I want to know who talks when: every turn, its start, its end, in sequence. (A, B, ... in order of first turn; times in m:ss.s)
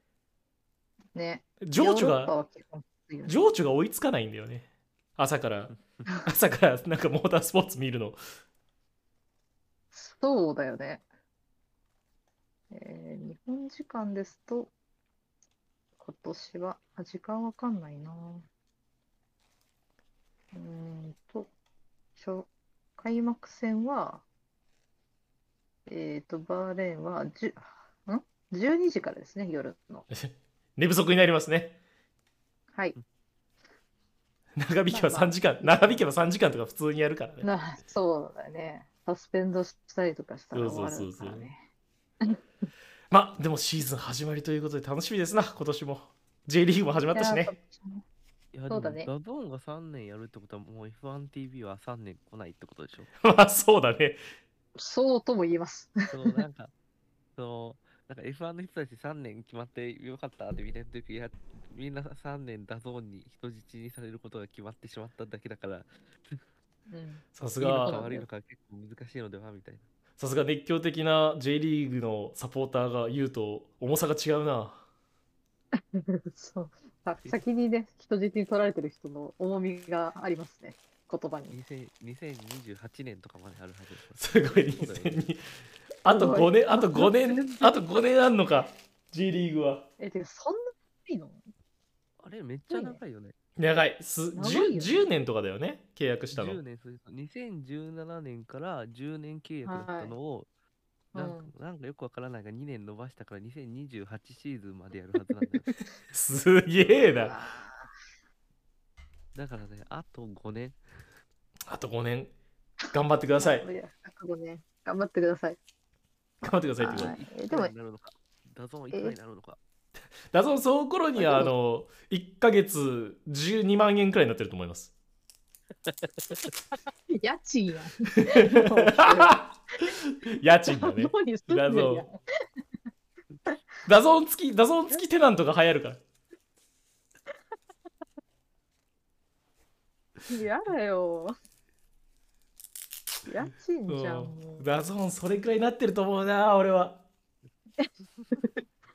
0:01.1-0:03.5 A
0:01.6-0:02.3 B
0:03.2-0:04.6 B
0:05.2-0:08.2 B
0:09.9-0:11.0 A
0:12.7-0:14.7 A
0:16.0-0:18.5 A
0:20.5-0:21.5 A
0:22.2-0:24.2 A
0:25.9-0:30.1 A
0:30.1-0:31.8 B
0:34.6-0:37.4 B
0:34.9-0:36.0 A
0:37.4-0:41.6 A
0:40.5-0:41.5 B
0:43.1-0:47.5 B
0:47.1-0:48.0 A
0:48.5-0:53.1 C
0:48.7-0:49.1 A
0:53.2-0:54.2 B
0:54.8-0:56.4 A
0:56.1-0:56.7 C
0:57.4-1:06.4 C
1:06.9-1:08.3 A
1:07.4-1:08.0 B
1:07.6-1:09.9 C
1:10.2-1:14.8 B
1:15.7-1:21.6 A
1:21.5-1:25.3 C
1:24.2-1:25.5 B
1:26.0-1:29.8 B
1:26.1-1:27.8 A
1:30.0-1:31.4 A
1:32.2-1:33.3 C
1:32.7-1:33.0 A
1:33.6-1:36.6 B
1:34.3-1:35.1 A
1:36.3-1:40.5 C
1:39.6-1:40.1 A
1:41.1-1:41.5 A
1:41.1-1:45.7 C
1:46.1-1:47.3 B
1:46.9-1:47.9 A
1:49.3-1:51.1 C
1:51.7-1:52.3 B
1:52.9-1:53.6 B
1:52.9-1:55.6 A
1:56.4-1:57.2 B
1:56.8-1:57.7 A
1:57.0-1:59.6 C
2:00.3-2:04.9 B
2:01.2-2:01.5 A
2:05.8-2:06.5 C
2:07.1-2:10.0 A
2:08.2-2:12.0 B
2:10.7-2:12.2 A
2:13.8-2:16.0 B
2:20.3-2:21.3 A
2:23.2-2:24.7 A
2:23.9-2:27.0 B
2:27.8-2:28.6 A
2:28.1-2:28.4 C